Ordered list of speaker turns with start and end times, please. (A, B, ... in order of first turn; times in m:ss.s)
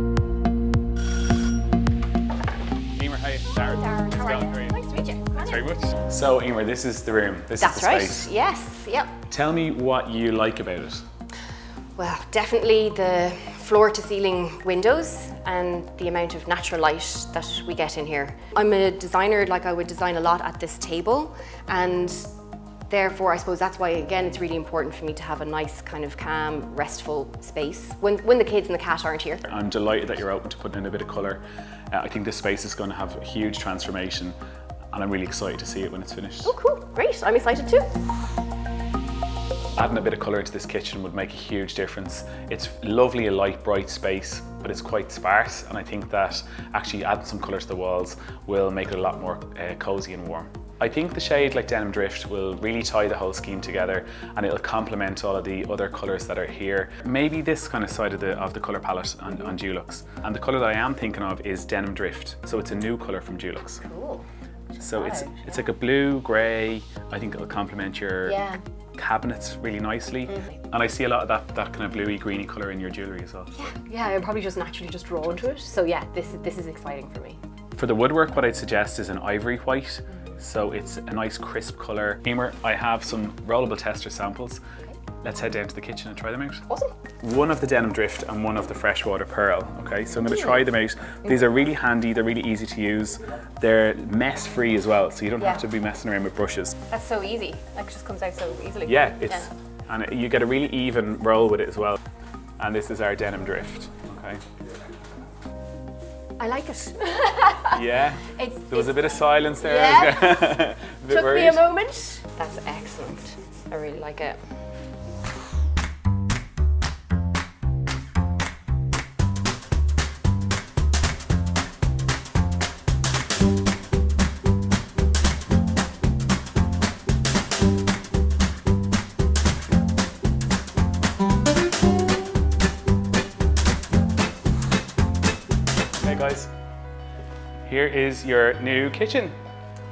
0:02.9-0:04.8 A
0:03.5-0:05.6 B
0:05.3-0:08.3 A
0:07.6-0:09.2 B
0:09.3-0:11.0 A
0:12.0-0:22.3 B
0:22.9-0:29.4 B
0:29.4-0:34.3 A
0:34.9-0:36.5 A
0:36.4-0:37.9 B
0:39.8-1:03.8 A
1:03.8-1:04.2 B
1:04.8-1:08.4 A
1:04.8-1:05.4 B
1:08.2-1:08.6 B
1:09.0-1:13.6 A
1:10.3-1:10.6 B
1:13.5-1:17.4 B
1:17.8-1:24.6 A
1:25.2-1:26.6 A
1:26.7-1:26.9 B
1:27.2-1:36.7 A
1:30.2-1:30.6 B
1:36.9-1:39.5 B
1:38.8-1:42.0 A
1:42.6-1:44.4 A
1:46.4-1:54.4 B
1:47.7-1:51.6 A
2:16.0-2:16.5 A
2:17.6-2:19.4 A